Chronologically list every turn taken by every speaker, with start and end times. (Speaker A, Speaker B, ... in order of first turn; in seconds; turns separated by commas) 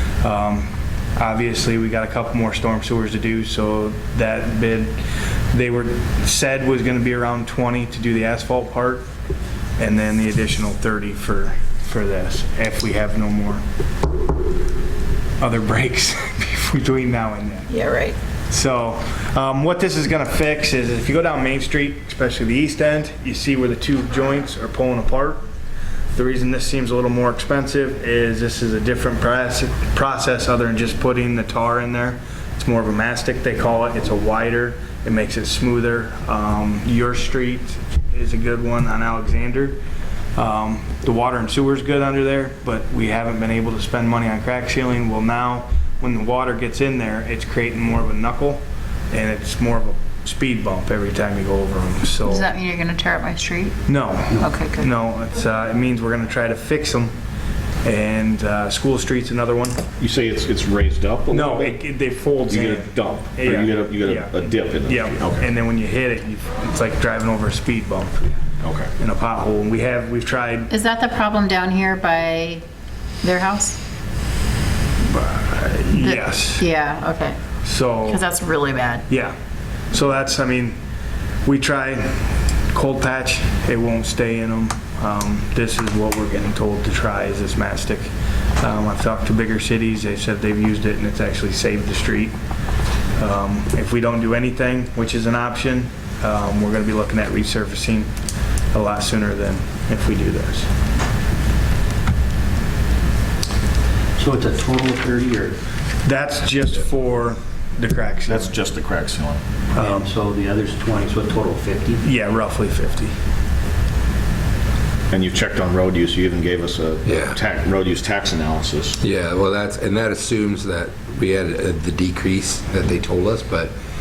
Speaker A: 0.2-5.0, Speaker A: 5.5-9.1, Speaker A: 9.8-13.6, Speaker A: 15.4-17.7, Speaker B: 17.7-18.1, Speaker A: 18.5-25.4, Speaker A: 26.1-39.8, Speaker A: 40.4-52.5, Speaker B: 52.3-53.8, Speaker A: 53.9-57.1, Speaker B: 54.3-54.9, Speaker A: 57.8-59.8, Speaker C: 60.0-61.8, Speaker A: 61.3-68.3, Speaker C: 62.5-65.5, Speaker C: 68.6-68.9, Speaker A: 69.0-70.7, Speaker B: 70.7-72.6, Speaker B: 73.2-73.8, Speaker A: 75.1-76.7, Speaker B: 76.0-77.4, Speaker A: 77.6-78.2, Speaker B: 78.0-79.0, Speaker A: 79.1-79.3, Speaker A: 79.9-80.8, Speaker A: 81.4-92.3, Speaker A: 93.2-98.1, Speaker A: 98.7-100.7, Speaker D: 104.2-105.5, Speaker A: 106.0-108.5, Speaker C: 108.3-109.4, Speaker A: 109.7-110.1, Speaker D: 109.7-112.0, Speaker A: 112.0-113.1, Speaker C: 115.1-119.0, Speaker E: 117.0-117.4, Speaker E: 119.0-123.7